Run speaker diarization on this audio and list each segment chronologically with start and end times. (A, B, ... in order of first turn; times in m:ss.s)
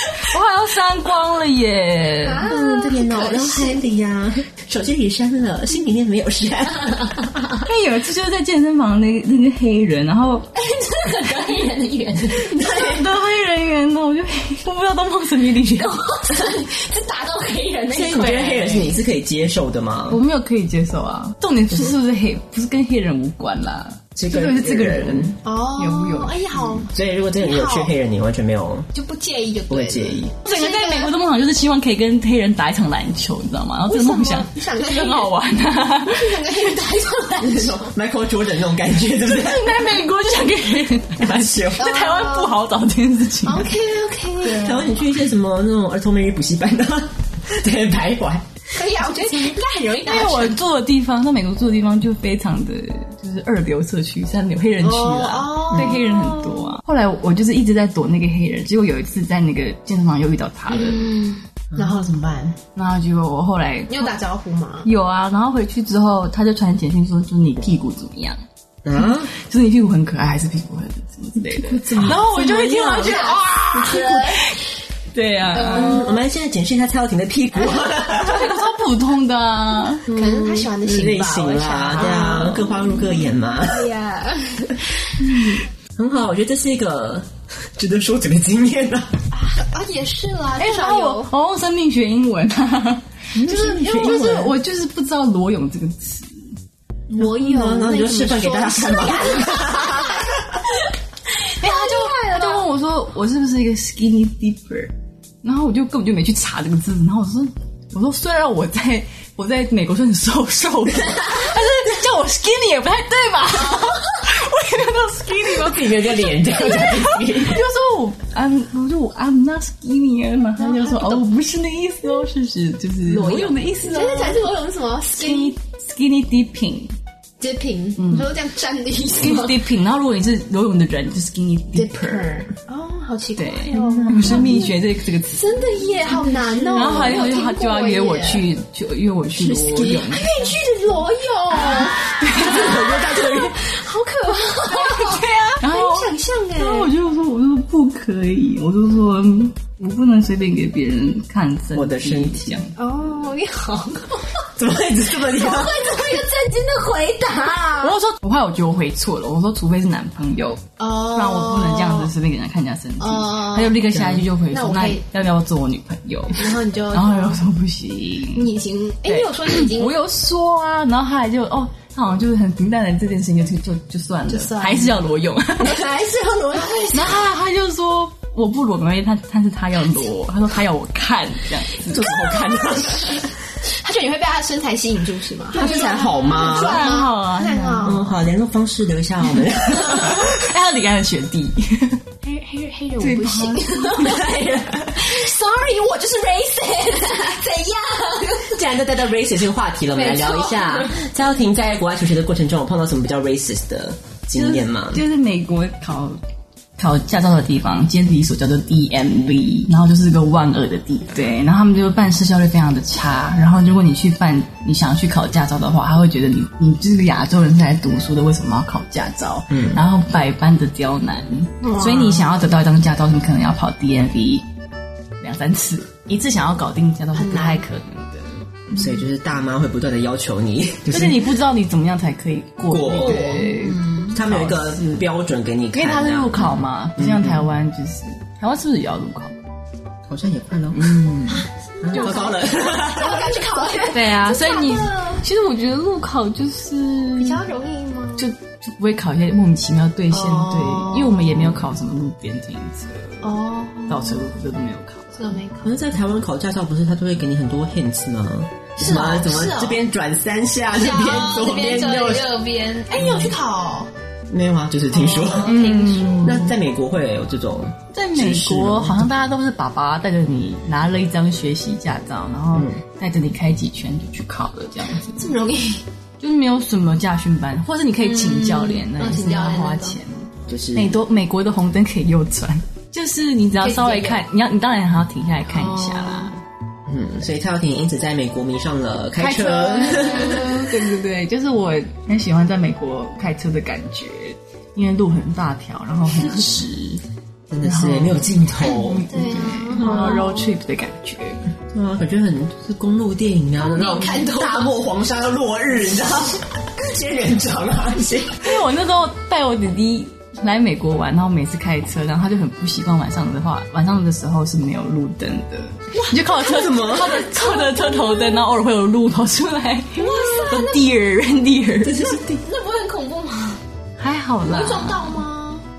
0:00.2-0:02.5 A
0:02.2-0:03.9 B
0:02.4-0:07.3 C
0:07.6-0:10.5 A
0:10.6-0:13.0 B
0:12.6-0:16.0 A
0:15.8-0:18.9 B
0:17.9-0:20.2 C
0:18.2-0:18.4 A
0:20.1-0:26.4 A
0:21.7-0:22.0 C
0:24.2-0:25.4 C
0:25.4-0:27.9 B
0:26.8-0:28.9 C
0:28.9-0:31.1 B
0:29.7-0:30.3 C
0:30.4-0:36.4 A
0:33.9-0:35.3 B
0:36.0-0:37.9 B
0:37.4-0:40.0 C
0:39.2-0:43.7 A
0:41.2-0:42.0 C
0:41.8-0:42.6 B
0:43.4-0:45.0 B
0:44.4-0:48.5 C
0:48.7-0:50.6 B
0:50.1-1:01.1 A
0:54.8-0:56.8 B
1:00.7-1:02.6 B
1:02.8-1:04.1 A
1:03.9-1:04.9 B
1:04.8-1:08.4 A
1:08.8-1:09.3 C
1:09.0-1:14.5 A
1:11.7-1:13.3 C
1:11.8-1:14.5 B
1:13.8-1:14.2 C
1:15.1-1:16.0 A
1:15.5-1:16.2 B
1:15.7-1:18.6 C
1:18.1-1:20.1 A
1:20.1-1:24.9 B
1:20.1-1:23.9 C
1:26.0-1:29.2 C
1:29.3-1:31.3 B
1:30.6-1:36.6 A
1:33.4-1:34.5 C
1:33.4-1:34.5 B
1:37.1-1:40.4 B
1:37.2-1:40.5 C
1:41.4-1:42.7 B
1:41.6-2:04.4 A
1:55.5-1:57.7 C
2:00.6-2:01.2 B
2:03.1-2:05.6 B
2:05.1-2:06.9 A
2:07.4-2:09.6 B
2:08.0-2:08.3 A
2:09.2-2:12.3 A
2:11.7-2:18.4 B
2:13.4-2:15.7 A
2:13.7-2:14.5 C
2:16.7-2:20.5 A
2:19.4-2:26.9 B
2:22.2-2:23.3 A
2:22.6-2:23.3 C
2:24.7-2:32.8 A
2:31.7-2:32.6 C
2:32.8-2:34.4 B
2:34.6-2:36.2 C
2:35.3-2:38.0 B
2:37.8-2:48.5 A
2:40.8-2:42.1 B
2:43.0-2:43.9 B
2:43.9-2:44.3 C
2:44.5-2:45.0 B
2:46.4-2:47.4 B
2:48.3-2:50.0 B
2:49.0-2:55.8 A
2:54.3-2:55.0 B
2:55.7-2:57.2 B
2:56.9-3:02.1 A
3:01.9-3:03.3 C
3:02.0-3:08.2 B
3:05.6-3:06.9 C
3:05.6-3:07.9 A
3:07.8-3:10.3 C
3:10.0-3:12.0 A
3:12.2-3:18.6 B
3:13.0-3:13.9 A
3:14.0-3:15.2 C
3:18.5-3:25.0 C
3:19.9-3:21.0 B
3:24.3-3:26.2 A
3:26.8-3:44.5 A
3:39.5-3:39.8 C
3:41.6-3:42.3 B
3:45.2-3:48.8 A
3:47.1-3:47.6 B
3:48.7-3:51.2 C
3:50.9-3:54.9 A
3:52.7-3:53.4 C
3:53.0-3:54.2 B
3:54.1-3:57.5 C
3:55.7-3:59.4 A
4:00.1-4:03.6 C
4:01.3-4:05.2 B
4:01.9-4:02.3 A
4:03.9-4:07.4 A
4:07.2-4:08.3 B
4:08.2-4:15.4 A
4:10.1-4:11.4 B
4:13.2-4:14.3 B
4:15.1-4:15.8 B
4:15.6-4:22.4 C
4:18.8-4:19.8 B
4:20.7-4:23.9 B
4:22.9-4:23.4 C
4:24.3-4:25.6 C
4:24.9-4:26.5 B
4:25.4-4:26.5 A
4:26.2-4:29.1 C
4:27.9-4:35.3 A
4:32.5-4:32.8 C
4:35.2-4:35.8 B
4:36.2-4:46.3 A
4:38.0-4:40.0 B
4:40.5-4:41.0 C
4:43.6-4:44.2 B
4:45.5-4:46.3 B
4:46.9-4:50.5 C
4:49.2-4:57.0 A
4:49.9-4:50.5 B
4:57.5-5:00.3 C
4:57.6-5:01.4 A
4:59.1-5:00.5 B
5:01.7-5:08.4 C
5:03.6-5:04.8 B
5:08.4-5:22.2 A
5:16.0-5:18.4 B
5:16.4-5:17.2 C
5:20.0-5:20.9 B
5:21.9-5:23.6 B
5:21.9-5:22.2 C
5:24.0-5:25.2 A
5:24.4-5:25.6 B